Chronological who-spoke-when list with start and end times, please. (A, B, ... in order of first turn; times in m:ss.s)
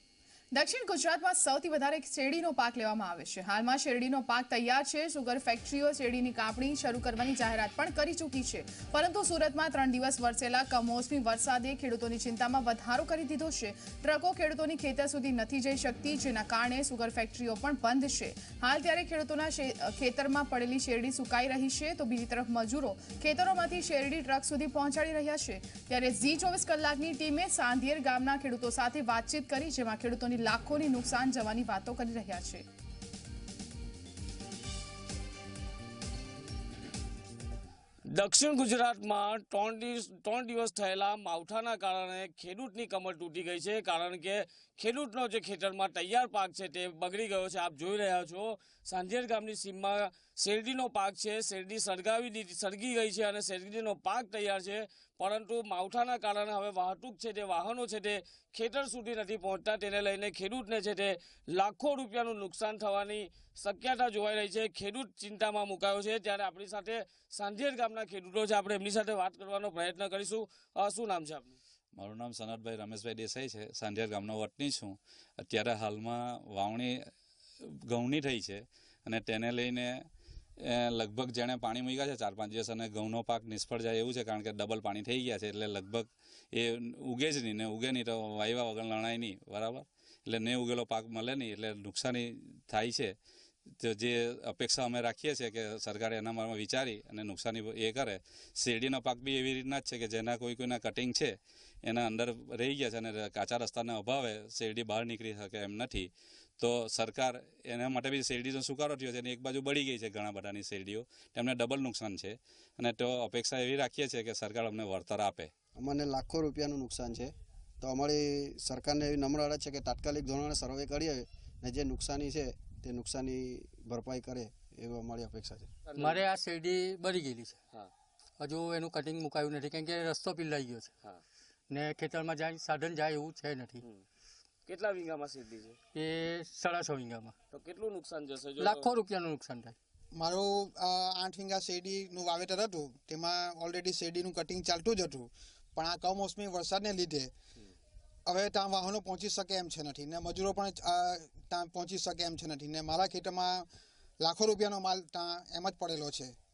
0:00.5-0:32.6 A
0:38.2-1:11.6 B
1:12.0-1:17.0 C
1:17.9-1:20.0 C
1:20.6-1:33.1 C
1:33.8-1:55.5 C
1:55.8-2:05.7 D
2:05.9-2:06.3 B
2:06.0-2:07.6 E
2:08.4-2:10.9 E
2:11.7-2:13.8 E
2:14.7-2:15.8 B
2:15.9-2:17.4 E
2:17.5-2:19.0 B
2:18.6-2:19.8 E
2:20.1-2:27.3 F
2:28.3-2:33.7 F
2:34.2-2:36.3 F